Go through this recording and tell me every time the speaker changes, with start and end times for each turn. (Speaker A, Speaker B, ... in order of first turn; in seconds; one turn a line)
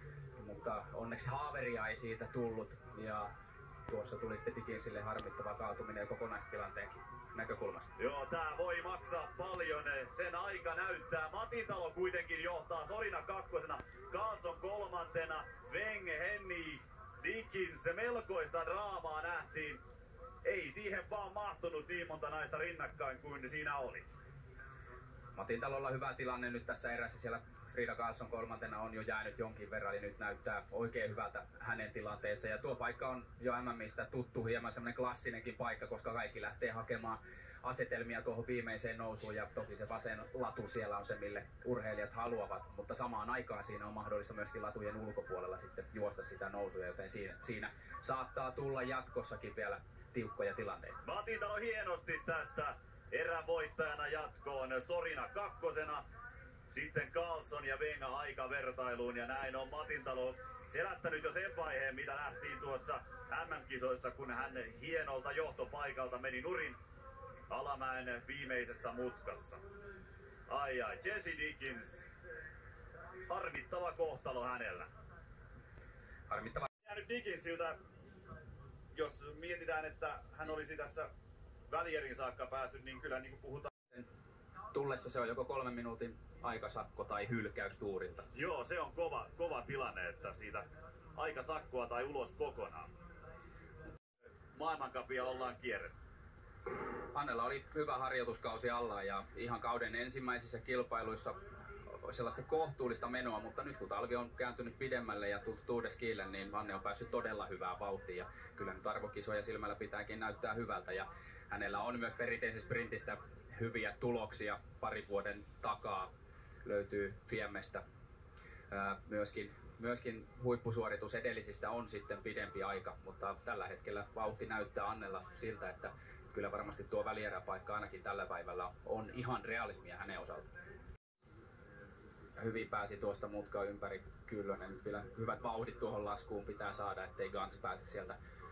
Speaker A: 0.3-3.3
Speaker A: 3.9-7.9
Speaker B: 8.0-19.8
Speaker B: 20.4-24.1
Speaker A: 25.4-51.0
Speaker B: 51.0-56.0
Speaker B: 56.7-66.8
Speaker B: 67.5-69.6
Speaker B: 70.5-72.1
Speaker B: 73.3-74.9
Speaker A: 76.3-76.7
Speaker B: 76.8-77.8
Speaker B: 78.9-81.1
Speaker B: 81.7-83.7
Speaker A: 84.7-88.3
Speaker B: 88.3-92.9
Speaker B: 94.5-95.9
Speaker A: 97.1-101.4
Speaker A: 102.0-116.1
Speaker A: 116.6-117.8
Speaker A: 118.7-130.5
Speaker A: 132.4-138.2